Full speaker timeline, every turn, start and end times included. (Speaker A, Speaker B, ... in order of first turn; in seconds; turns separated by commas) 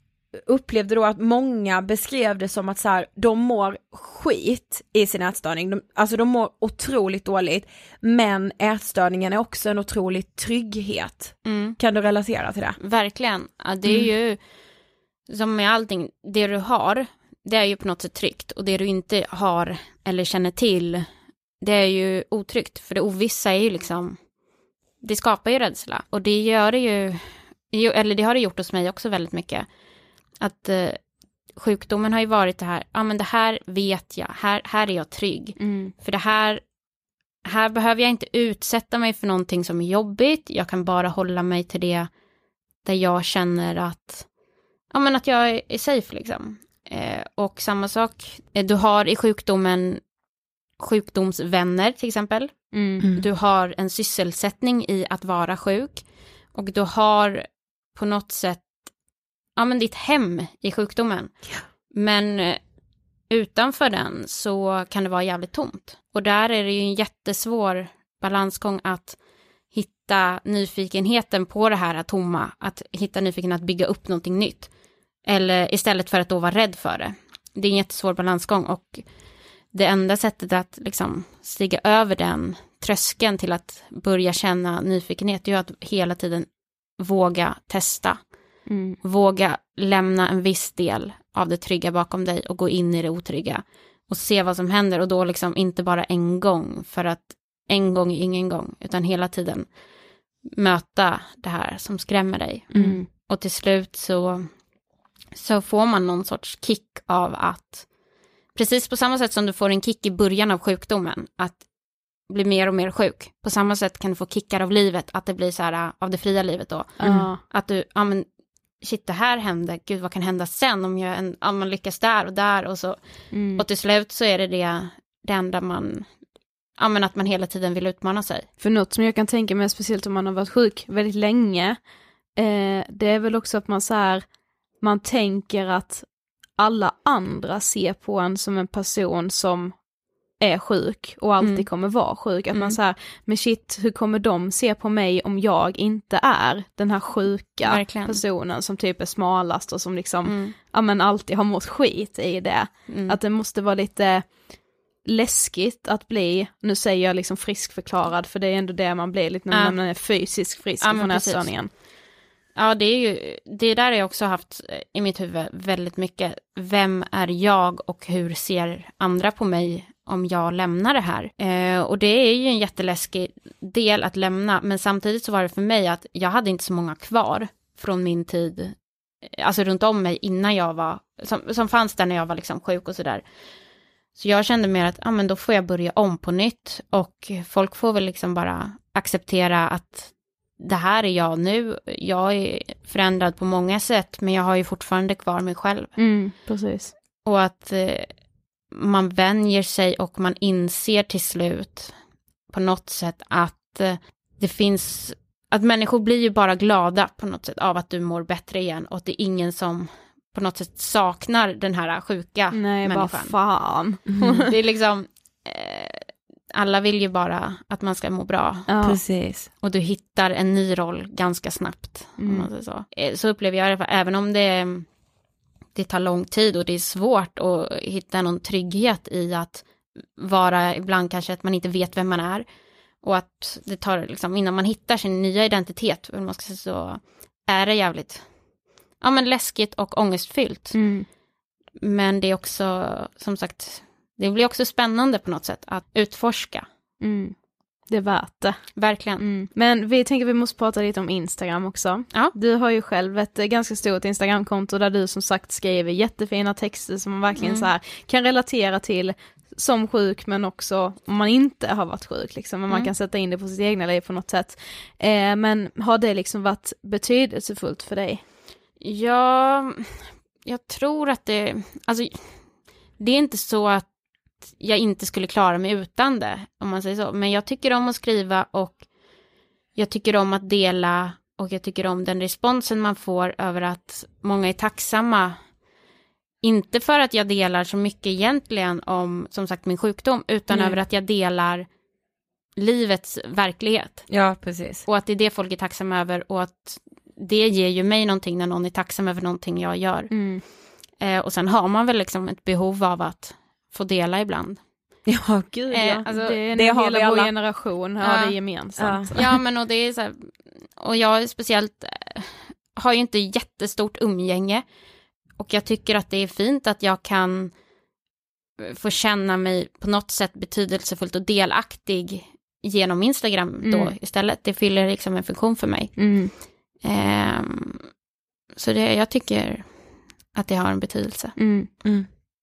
Speaker A: 0.4-12.8, Speaker B: 11.4-11.8, Speaker B: 12.8-14.4, Speaker B: 15.3-21.1, Speaker B: 21.6-24.2, Speaker B: 25.0-29.7, Speaker B: 30.4-31.0, Speaker B: 31.5-36.6, Speaker C: 35.6-35.9, Speaker B: 37.5-42.1, Speaker B: 42.8-44.3, Speaker B: 44.9-50.0, Speaker B: 50.8-58.9, Speaker C: 52.7-53.0, Speaker B: 59.5-61.4, Speaker B: 61.9-62.6, Speaker B: 63.3-69.2, Speaker B: 69.7-74.7, Speaker B: 75.2-79.0, Speaker B: 79.7-88.3, Speaker C: 88.7-89.0, Speaker B: 89.0-99.7, Speaker B: 100.5-104.5, Speaker C: 102.7-103.0, Speaker A: 102.7-103.0, Speaker B: 105.3-107.9, Speaker B: 108.5-111.6, Speaker B: 112.3-118.2, Speaker C: 117.0-117.4, Speaker B: 118.8-126.1, Speaker C: 123.3-123.6, Speaker B: 126.8-128.5, Speaker C: 128.6-131.8, Speaker C: 132.3-139.8, Speaker C: 140.4-154.4, Speaker B: 141.4-141.7, Speaker B: 142.5-142.8, Speaker B: 147.6-148.2, Speaker B: 150.2-150.5, Speaker B: 152.9-153.2, Speaker C: 155.0-161.7, Speaker B: 159.5-159.8, Speaker B: 160.8-161.5, Speaker B: 162.6-183.2, Speaker B: 184.2-196.0, Speaker C: 196.0-196.9, Speaker B: 197.2-198.1, Speaker B: 198.7-201.9, Speaker B: 202.5-213.3, Speaker C: 212.5-214.5, Speaker B: 214.4-218.7, Speaker C: 218.7-219.0, Speaker A: 218.8-219.5, Speaker B: 219.6-224.9, Speaker C: 222.2-222.5, Speaker B: 225.7-229.7, Speaker B: 230.2-232.4, Speaker B: 233.0-238.2, Speaker B: 239.0-240.8, Speaker C: 240.7-241.1, Speaker B: 241.8-246.7, Speaker C: 247.0-247.3, Speaker C: 247.9-268.2, Speaker B: 248.8-249.4, Speaker B: 257.4-257.7, Speaker B: 268.8-272.4, Speaker B: 273.0-273.9, Speaker B: 274.4-278.8, Speaker B: 279.8-285.4, Speaker B: 286.4-291.7, Speaker B: 292.6-294.0, Speaker A: 294.1-294.8, Speaker B: 294.9-300.1, Speaker C: 300.1-300.4, Speaker B: 301.0-304.6, Speaker A: 305.1-307.3, Speaker B: 305.7-306.4, Speaker C: 306.1-309.2, Speaker B: 308.0-308.4, Speaker A: 308.8-309.1, Speaker B: 309.1-314.6, Speaker B: 315.4-317.5, Speaker B: 318.6-326.2, Speaker C: 323.6-323.9, Speaker C: 326.0-326.3, Speaker B: 326.8-327.9, Speaker B: 328.6-329.7, Speaker B: 330.3-331.3, Speaker C: 331.4-331.7